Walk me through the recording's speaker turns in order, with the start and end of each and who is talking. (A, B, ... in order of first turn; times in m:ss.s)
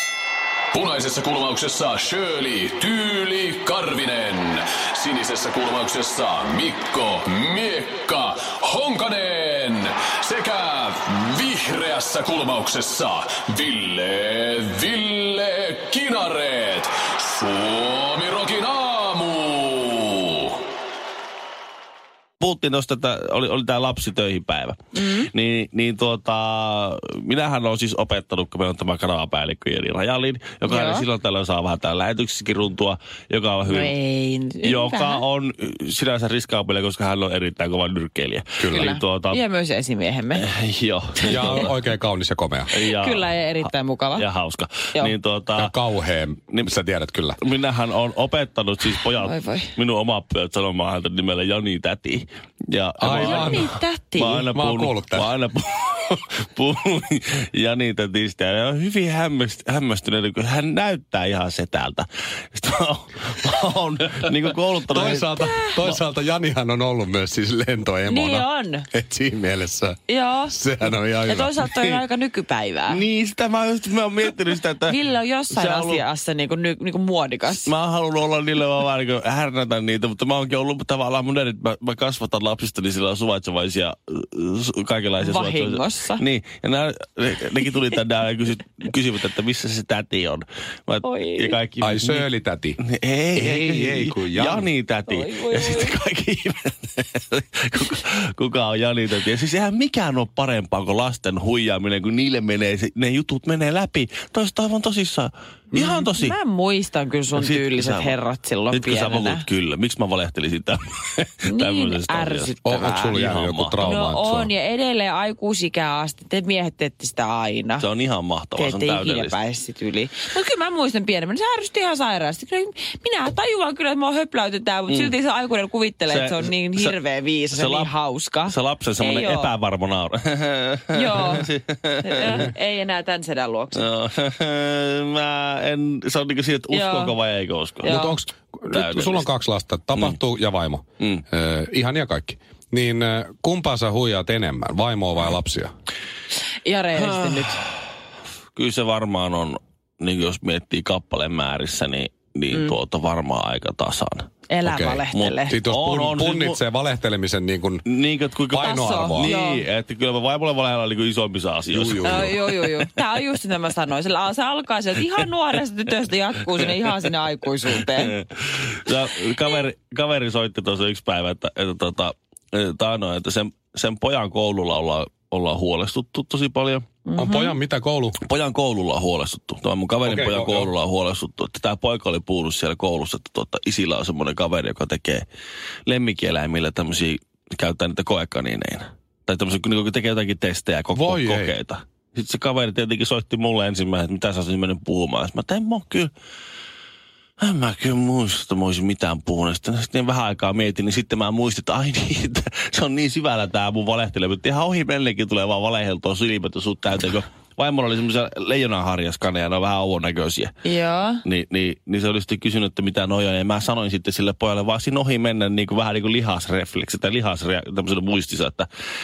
0:00.7-0:20.6 A
0:22.4-0:33.9 B
0:24.9-0:25.3 C
0:30.6-0:31.1 C
0:33.6-0:35.2 C
0:34.6-0:39.4 B
0:38.6-0:38.9 D
0:38.7-0:40.5 C
0:40.3-0:41.7 B
0:41.3-0:42.7 D
0:41.3-0:41.7 C
0:42.7-0:45.7 B
0:42.8-0:44.2 C
0:45.5-0:47.4 D
0:47.4-1:05.3 B
0:49.2-0:49.7 C
0:53.0-0:53.7 D
0:53.1-0:54.4 C
0:54.4-0:55.3 D
1:04.9-1:11.6 D
1:05.3-1:05.9 C
1:08.1-1:08.9 C
1:10.1-1:13.0 C
1:11.6-1:12.0 B
1:12.9-1:15.0 B
1:14.8-1:17.7 C
1:15.5-1:16.0 B
1:17.5-1:32.3 B
1:25.2-1:26.2 C
1:31.0-1:31.6 C
1:31.8-1:32.8 D
1:32.8-1:46.4 B
1:33.3-1:34.7 D
1:35.1-1:36.0 C
1:45.7-1:46.0 D
1:45.8-1:49.4 C
1:47.3-1:48.2 B
1:48.7-1:52.5 B
1:51.4-1:53.2 C
1:52.6-1:54.5 D
1:53.0-1:54.0 B
1:53.8-1:57.9 C
1:57.8-1:59.4 B
1:58.5-2:09.5 C
2:04.9-2:05.1 B
2:06.1-2:06.9 B
2:07.5-2:07.9 B
2:08.5-2:12.5 B
2:10.9-2:11.5 C
2:12.0-2:13.8 C
2:13.7-2:18.0 B
2:16.7-2:17.2 C
2:17.8-2:18.2 C
2:17.8-2:25.7 D
2:18.7-2:19.3 B
2:26.6-2:27.6 C
2:27.0-2:27.6 B
2:28.5-2:34.3 B
2:34.5-2:35.6 C
2:34.6-2:37.8 D
2:35.1-2:36.6 B
2:37.8-2:42.9 B
2:38.5-2:39.3 D
2:38.6-2:39.6 C
2:41.7-2:42.5 D
2:42.0-2:48.2 C
2:48.0-2:56.8 B
2:57.1-2:57.6 C
2:57.2-2:58.2 D
2:58.2-3:05.2 B
3:00.0-3:00.7 D
3:05.8-3:16.1 B
3:10.9-3:11.5 D
3:17.4-3:30.5 B
3:30.6-3:31.2 C
3:31.2-3:38.7 B